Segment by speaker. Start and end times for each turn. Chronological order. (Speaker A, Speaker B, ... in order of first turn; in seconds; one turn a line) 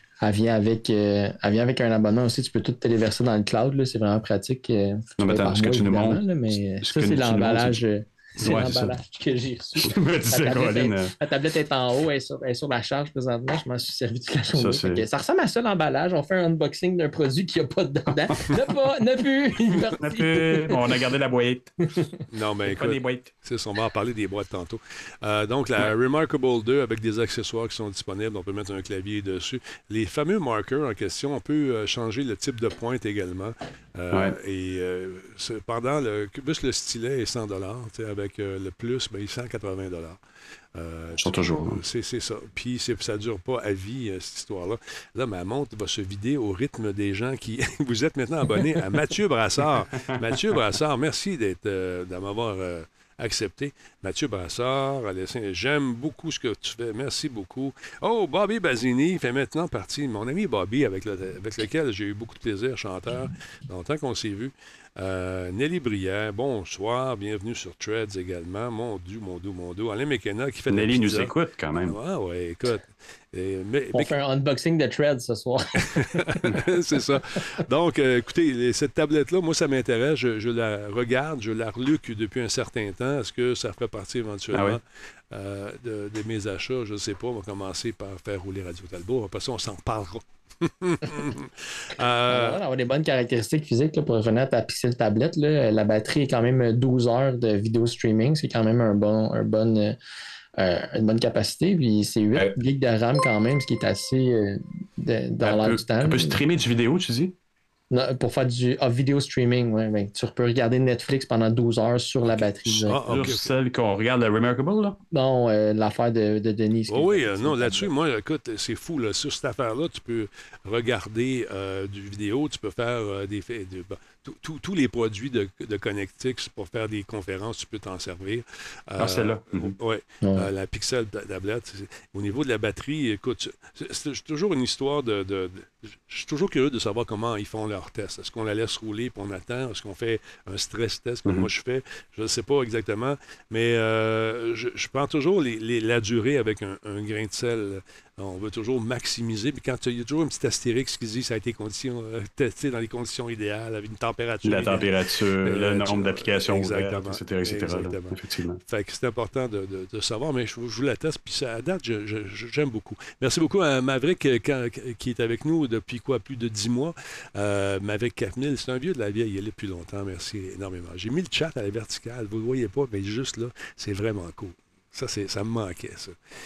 Speaker A: 0.2-20.8
Speaker B: 5.2-6.2
Speaker B: 6.8-7.8
Speaker B: 8.4-8.9
Speaker B: 9.8-11.1
Speaker B: 14.6-15.0
Speaker B: 19.8-21.7
Speaker C: 22.3-40.2
Speaker B: 22.7-23.3
Speaker C: 40.7-71.3
Speaker B: 41.2-41.8
Speaker B: 50.1-50.4
Speaker B: 70.7-72.0
Speaker C: 71.8-74.1
Speaker A: 73.9-76.6
Speaker C: 75.9-92.6
Speaker B: 84.5-84.8
Speaker A: 92.3-100.0
Speaker A: 100.6-106.4
Speaker B: 105.4-107.3
Speaker A: 107.9-113.0
Speaker C: 112.3-113.5
Speaker B: 113.1-115.0
Speaker A: 115.1-117.9
Speaker C: 116.9-176.1
Speaker B: 129.0-129.7
Speaker A: 130.2-130.5
Speaker B: 154.4-158.6